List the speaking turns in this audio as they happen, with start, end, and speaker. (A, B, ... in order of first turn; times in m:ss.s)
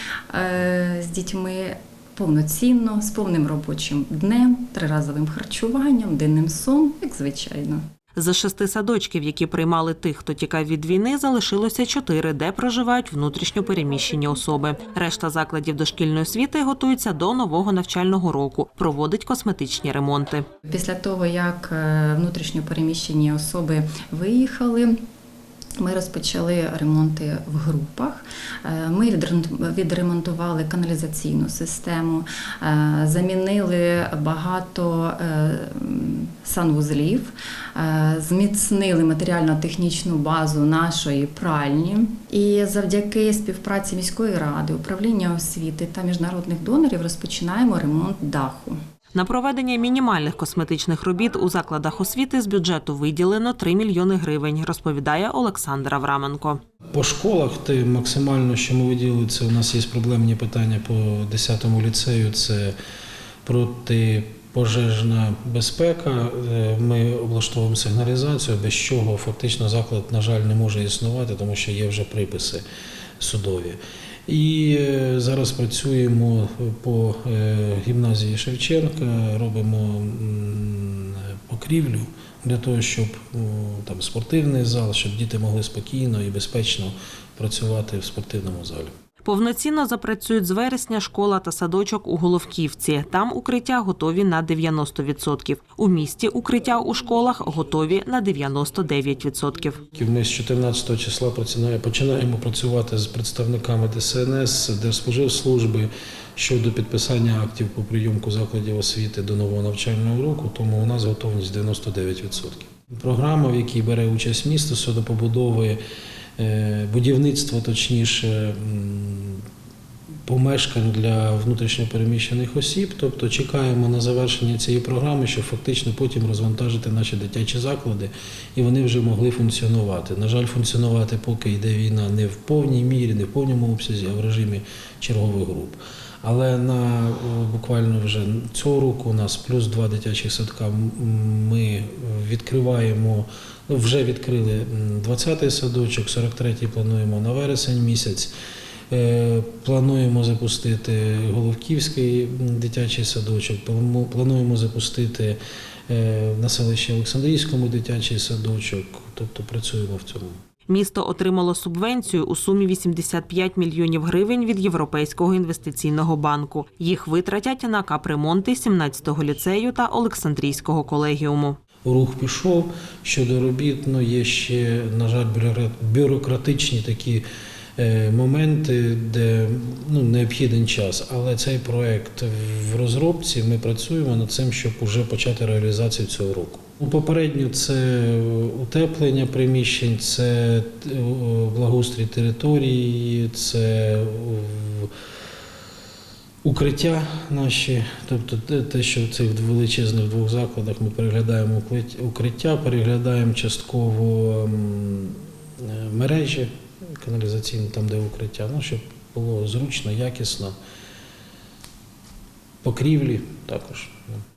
0:00.3-0:07.8 A
0:08.2-0:20.4 B
0:20.6-0:25.0 A
0:25.8-0:48.8 A
0:49.1-0:56.6 B
0:56.9-1:02.8 C
1:03.4-1:12.6 C
1:13.2-1:28.9 C
1:29.2-1:39.8 B
1:39.9-1:55.8 C
1:56.4-1:59.4 C
2:00.2-2:28.3 C
2:28.9-2:40.4 C
2:40.7-2:51.6 B
2:51.8-2:57.2 C
2:57.8-3:14.9 C
3:16.4-3:30.5 C
3:32.6-3:34.1 C